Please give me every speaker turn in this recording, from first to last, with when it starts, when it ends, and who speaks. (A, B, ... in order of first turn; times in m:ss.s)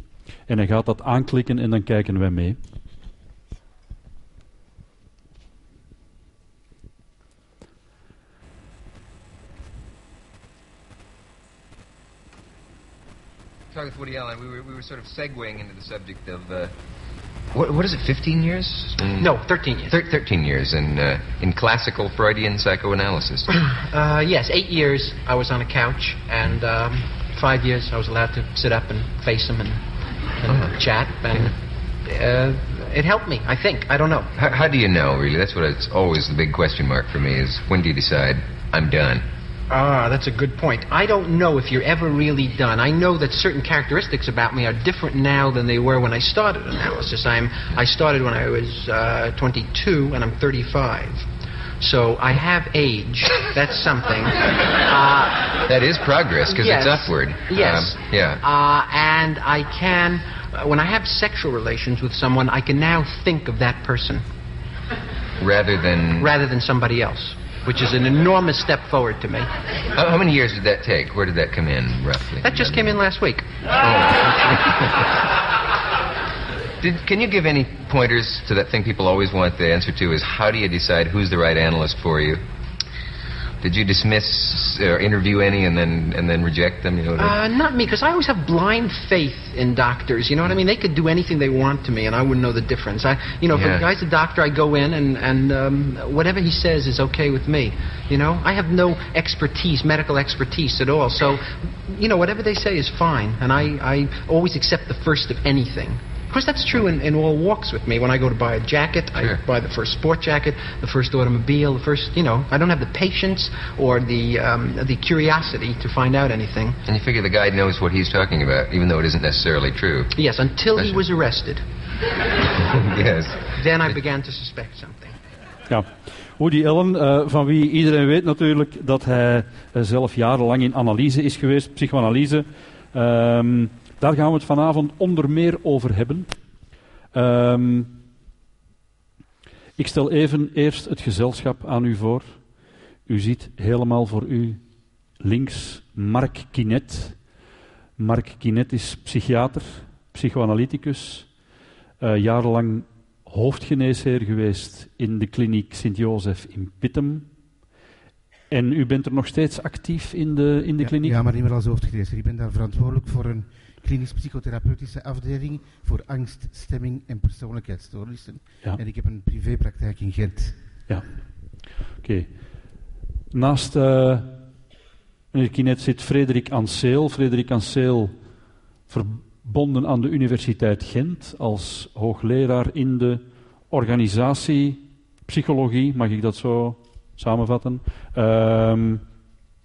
0:00.5-0:02.6 A
0:13.7-0:16.7 B
0:17.5-0:23.5 B
0:19.2-0:20.0 C
0:23.6-0:29.8 C
0:30.4-0:34.4 C
0:34.3-0:39.2 B
0:39.7-0:51.2 C
0:51.8-0:55.6 C
0:55.6-0:58.4 B
0:56.5-1:04.3 C
1:05.4-1:06.3 B
1:06.2-1:09.5 C
1:09.9-1:13.0 B
1:12.4-1:13.6 C
1:13.8-1:14.8 B
1:16.8-1:22.4 B
1:23.6-1:27.4 B
1:27.2-1:56.8 C
1:33.5-1:33.9 B
1:49.1-1:49.4 B
1:56.8-2:00.1 B
2:00.1-2:01.6 C
2:02.7-2:03.9 B
2:03.6-2:05.2 C
2:05.7-2:16.3 A
2:17.1-2:17.9 A
2:19.8-2:22.4 A
2:23.1-2:24.6 A
2:25.2-2:27.2 A
2:28.0-2:31.3 A
2:32.0-2:37.3 A
2:38.5-2:41.2 A
2:40.8-2:50.5 D
2:52.0-2:52.3 A
2:53.3-2:54.4 A
2:55.3-2:58.1 A
2:58.9-3:09.0 A